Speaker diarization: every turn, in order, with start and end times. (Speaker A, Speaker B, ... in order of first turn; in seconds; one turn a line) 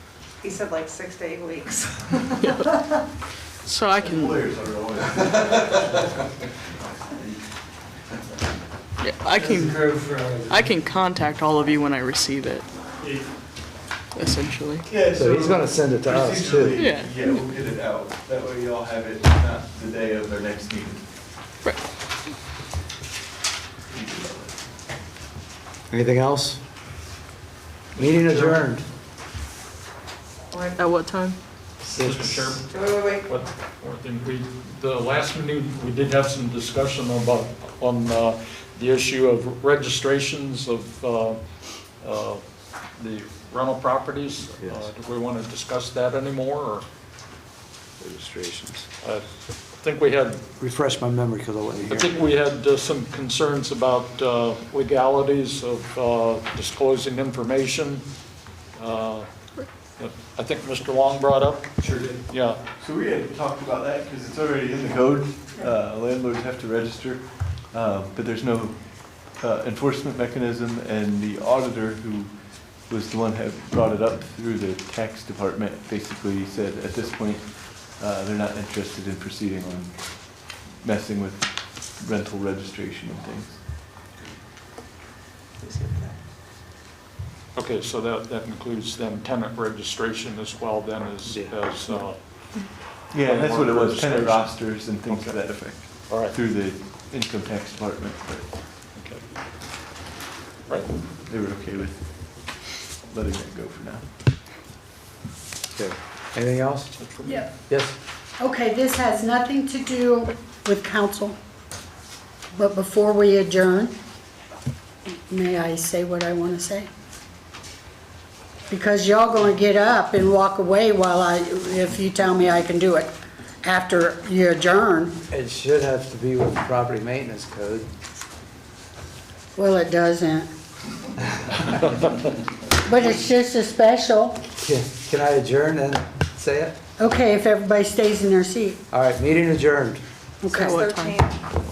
Speaker A: 0.4-2.8
Speaker B: 2.4-2.6
Speaker B: 3.6-4.5
Speaker C: 3.9-6.3
Speaker B: 9.0-9.9
Speaker D: 9.5-9.8
Speaker B: 10.5-12.7
Speaker B: 14.1-14.9
Speaker C: 14.8-21.1
Speaker D: 15.1-16.9
Speaker B: 16.7-17.4
Speaker C: 23.9-24.6
Speaker D: 25.9-26.6
Speaker E: 27.9-28.6
Speaker D: 27.9-28.8
Speaker A: 30.5-30.9
Speaker B: 30.6-31.4
Speaker E: 31.9-41.4
Speaker D: 31.9-32.5
Speaker A: 32.7-33.3
Speaker E: 42.0-42.4
Speaker E: 43.0-46.8
Speaker D: 44.6-44.9
Speaker D: 48.0-48.9
Speaker E: 49.0-50.4
Speaker D: 50.6-52.1
Speaker E: 51.8-58.0
Speaker E: 58.8-59.3
Speaker E: 60.0-62.6
Speaker C: 61.8-62.2
Speaker C: 62.8-83.6
Speaker A: 85.6-86.2
Speaker E: 87.5-96.4
Speaker D: 91.2-91.6
Speaker C: 93.1-98.5
Speaker E: 98.9-99.2
Speaker E: 100.7-100.9
Speaker C: 101.2-104.0
Speaker D: 105.7-106.9
Speaker E: 107.0-107.5
Speaker D: 107.7-108.0
Speaker F: 108.4-111.4
Speaker F: 112.5-113.9
Speaker F: 115.2-116.9
Speaker F: 118.7-123.1
Speaker F: 123.6-125.2
Speaker D: 125.3-127.9
Speaker F: 129.6-130.5
Speaker F: 132.8-134.4
Speaker D: 134.6-136.8
Speaker F: 137.0-138.8
Speaker D: 138.9-140.0
Speaker F: 140.4-140.9
Speaker A: 140.5-141.4
Speaker B: 140.5-141.3